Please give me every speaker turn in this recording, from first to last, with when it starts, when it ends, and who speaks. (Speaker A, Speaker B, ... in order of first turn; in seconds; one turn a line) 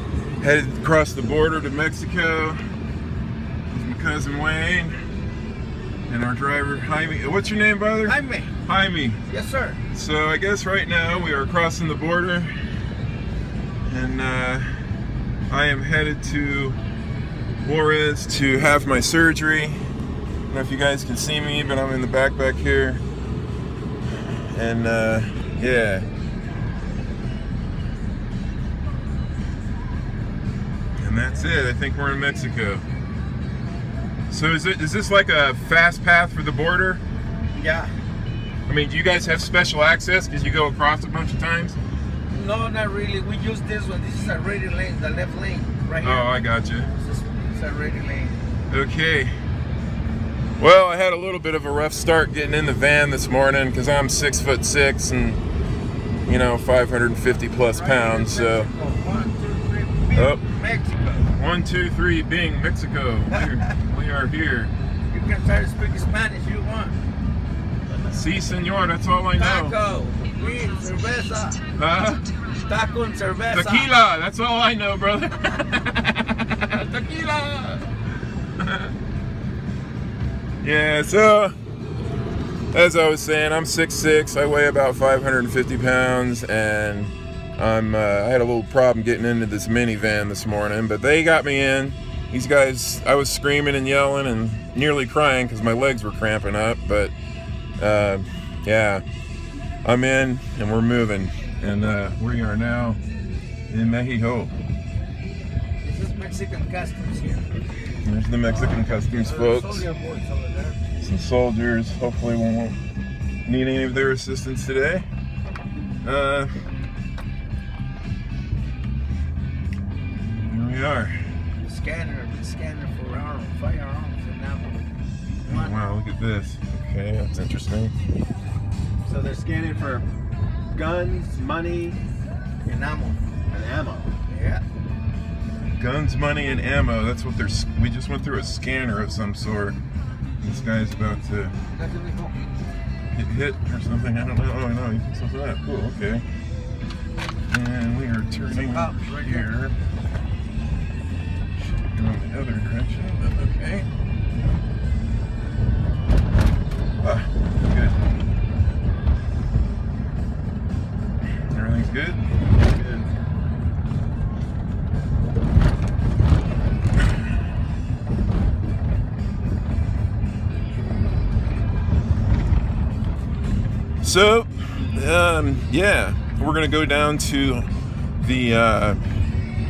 Speaker A: 0.4-2.6
Speaker A: 3.7-5.1
Speaker A: 6.1-9.2
Speaker B: 8.1-8.6
Speaker B: 9.3-9.8
Speaker A: 9.9-12.8
Speaker A: 13.9-14.9
Speaker A: 15.5-16.8
Speaker A: 17.6-19.8
Speaker A: 20.5-23.0
Speaker A: 24.1-26.1
Speaker A: 31.0-32.9
Speaker A: 34.3-37.0
Speaker B: 37.5-37.9
Speaker A: 38.7-41.8
Speaker B: 42.3-46.3
Speaker A: 46.0-46.9
Speaker B: 46.9-48.4
Speaker A: 48.7-49.4
Speaker A: 50.6-55.4
Speaker A: 56.3-58.7
Speaker B: 57.6-61.3
Speaker A: 60.1-60.4
Speaker A: 61.3-64.7
Speaker B: 63.3-63.7
Speaker B: 65.1-67.0
Speaker A: 68.1-69.8
Speaker B: 69.4-71.6
Speaker A: 71.8-72.3
Speaker B: 72.5-73.9
Speaker A: 73.5-77.9
Speaker A: 78.5-78.9
Speaker A: 80.6-81.5
Speaker A: 82.7-97.1
Speaker A: 97.8-99.0
Speaker A: 99.8-103.0
Speaker A: 103.7-104.5
Speaker B: 105.8-107.5
Speaker A: 108.0-109.9
Speaker B: 108.5-110.8
Speaker A: 111.0-112.8
Speaker A: 113.5-115.1
Speaker A: 116.0-116.6
Speaker A: 120.3-121.3
Speaker B: 121.6-124.9
Speaker B: 125.4-125.8
Speaker A: 125.5-127.9
Speaker C: 129.2-130.1
Speaker C: 130.7-132.0
Speaker B: 132.7-133.2
Speaker C: 133.5-134.1
Speaker B: 134.3-134.6
Speaker A: 135.7-139.8
Speaker A: 140.4-141.6
Speaker B: 141.7-142.5
Speaker A: 143.1-146.2
Speaker A: 147.5-149.8
Speaker B: 148.5-149.5
Speaker A: 151.6-153.9
Speaker A: 157.0-158.0
Speaker A: 161.5-162.3
Speaker C: 162.7-163.1
Speaker A: 174.0-177.7
Speaker A: 178.2-179.0